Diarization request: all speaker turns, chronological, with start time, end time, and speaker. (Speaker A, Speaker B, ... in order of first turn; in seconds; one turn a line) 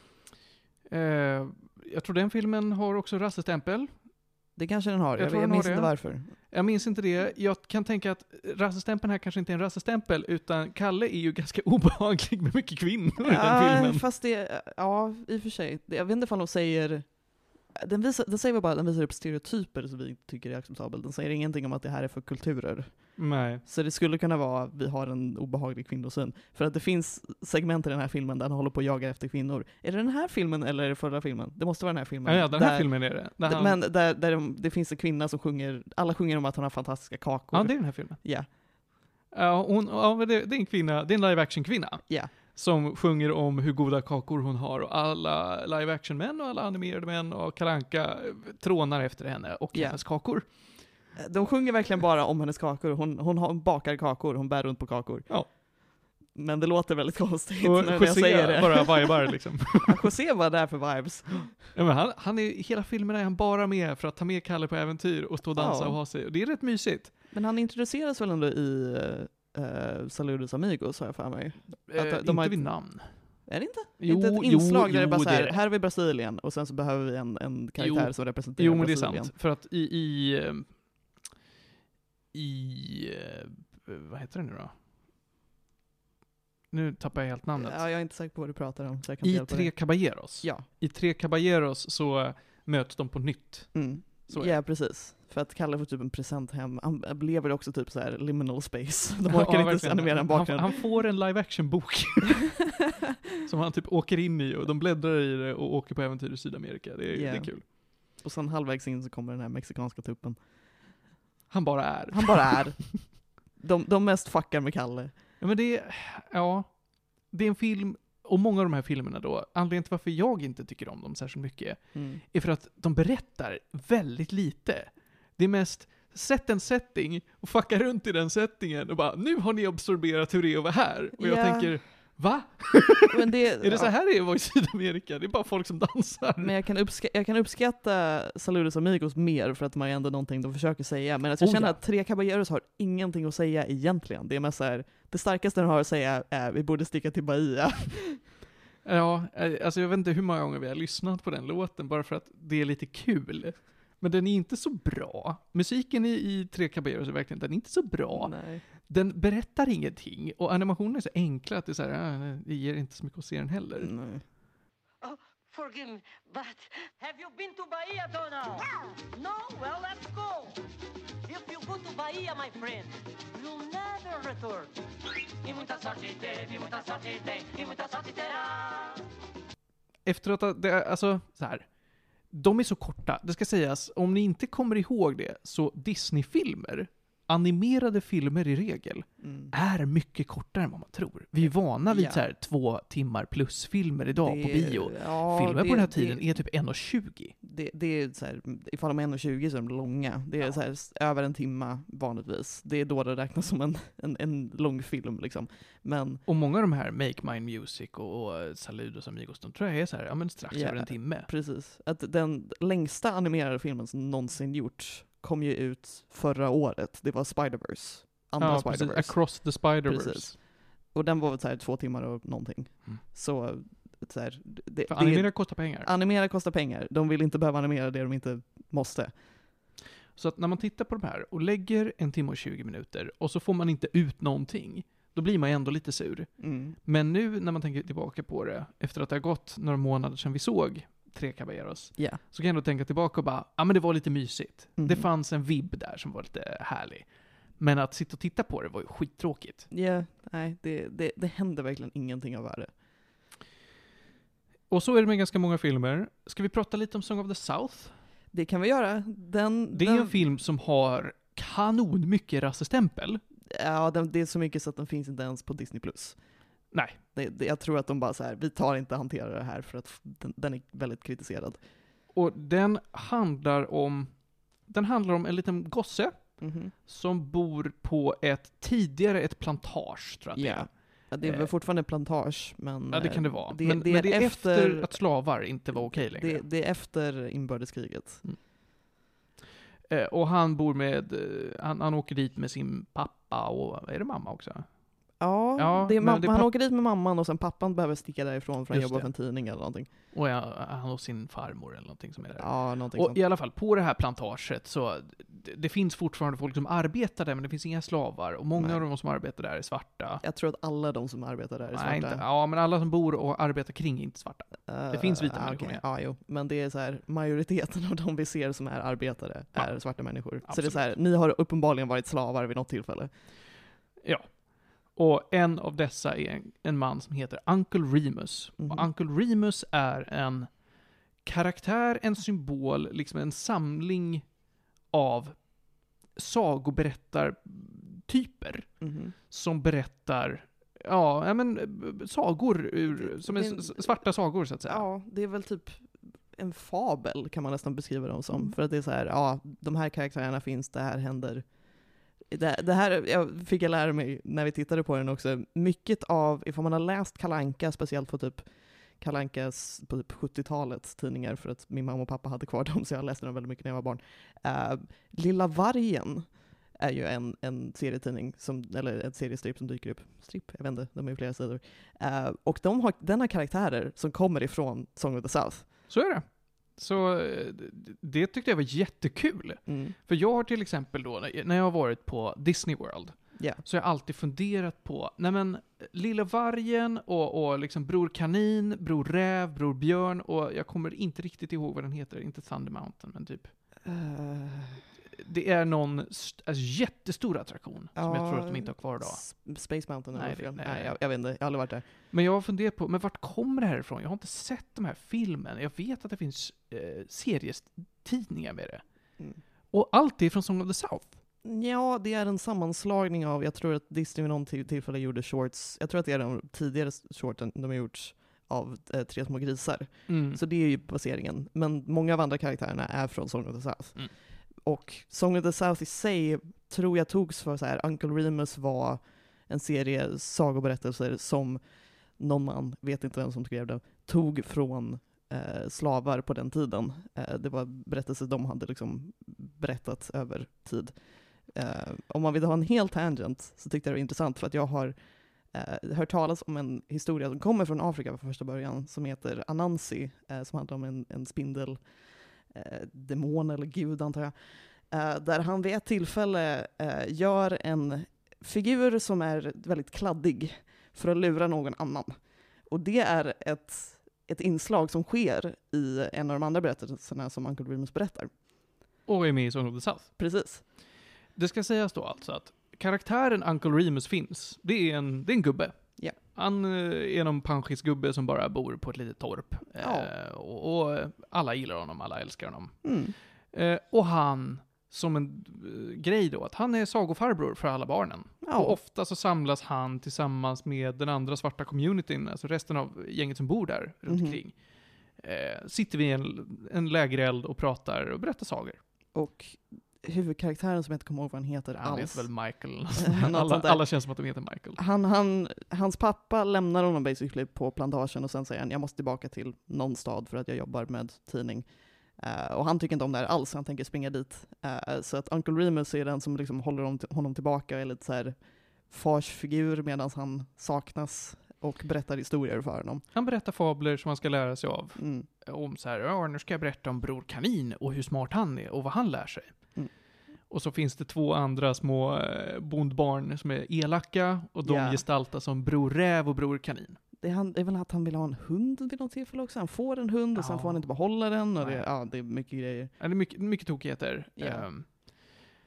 Speaker A: 0.9-4.1
Speaker B: 4.5-6.5
Speaker A: 5.2-14.1
Speaker B: 13.2-38.5
Speaker A: 23.2-23.6
Speaker A: 32.2-33.8
Speaker A: 37.5-38.7
Speaker A: 39.3-50.8
Speaker B: 42.1-42.3
Speaker B: 49.7-50.6
Speaker B: 51.2-61.7
Speaker A: 57.6-60.1
Speaker A: 61.7-67.2
Speaker B: 65.6-66.0
Speaker B: 67.3-79.3
Speaker A: 71.9-73.5
Speaker A: 74.0-75.6
Speaker A: 77.8-81.1
Speaker A: 82.3-84.7
Speaker A: 86.7-87.8
Speaker B: 87.6-90.7
Speaker A: 89.2-94.6
Speaker B: 93.7-100.9
Speaker A: 99.3-102.6
Speaker A: 103.5-107.7
Speaker B: 107.1-111.0
Speaker A: 111.5-112.8
Speaker B: 112.1-115.2
Speaker A: 115.4-136.5
Speaker B: 121.9-122.2
Speaker B: 131.2-132.2
Speaker B: 133.1-133.9
Speaker B: 136.4-148.3
Speaker A: 141.4-141.8
Speaker A: 148.8-163.9
Speaker B: 158.1-158.7
Speaker B: 163.8-164.2
Speaker C: 165.0-170.6
Speaker C: 171.2-174.8
Speaker C: 175.4-179.1
Speaker A: 180.1-197.4
Speaker B: 189.2-189.5
Speaker B: 191.4-192.2
Speaker B: 194.2-196.3
Speaker B: 197.4-206.2
Speaker A: 206.3-211.3
Speaker B: 210.5-229.4
Speaker A: 218.4-220.3
Speaker A: 224.9-225.9
Speaker A: 230.2-249.7
Speaker B: 236.4-236.8
Speaker B: 244.8-245.1
Speaker B: 249.7-252.8
Speaker A: 254.7-258.0
Speaker B: 258.3-260.2
Speaker A: 259.7-263.2
Speaker B: 263.5-266.3
Speaker A: 266.7-267.0
Speaker B: 267.1-271.7
Speaker A: 272.1-281.5
Speaker B: 276.4-276.7
Speaker B: 280.4-288.3
Speaker A: 282.9-286.4
Speaker A: 289.9-296.5
Speaker B: 295.2-299.9
Speaker A: 298.7-299.1
Speaker A: 300.1-310.2
Speaker B: 302.4-303.2
Speaker B: 308.6-308.8
Speaker B: 310.2-312.2
Speaker A: 311.7-315.8
Speaker B: 314.7-323.2
Speaker A: 319.6-321.0
Speaker A: 324.0-344.9
Speaker B: 328.6-328.9
Speaker B: 338.8-339.1
Speaker B: 342.9-344.1
Speaker B: 344.6-375.7
Speaker A: 375.9-393.5
Speaker B: 379.7-380.0
Speaker B: 383.4-383.6
Speaker B: 393.9-394.9
Speaker A: 395.2-401.0
Speaker B: 398.0-401.9
Speaker A: 401.9-411.2
Speaker B: 411.4-468.4
Speaker A: 420.1-420.4
Speaker A: 469.1-470.7
Speaker B: 470.2-470.6
Speaker A: 471.3-498.8
Speaker B: 479.8-480.1
Speaker B: 482.8-483.1
Speaker B: 488.4-488.8
Speaker B: 494.1-494.4
Speaker B: 499.1-504.1
Speaker A: 501.8-504.8
Speaker B: 504.8-523.1
Speaker A: 523.1-537.0
Speaker B: 525.0-525.3
Speaker B: 534.6-535.0
Speaker B: 537.2-542.9
Speaker A: 540.4-540.9
Speaker A: 541.6-541.9
Speaker A: 543.0-545.4
Speaker B: 544.4-544.7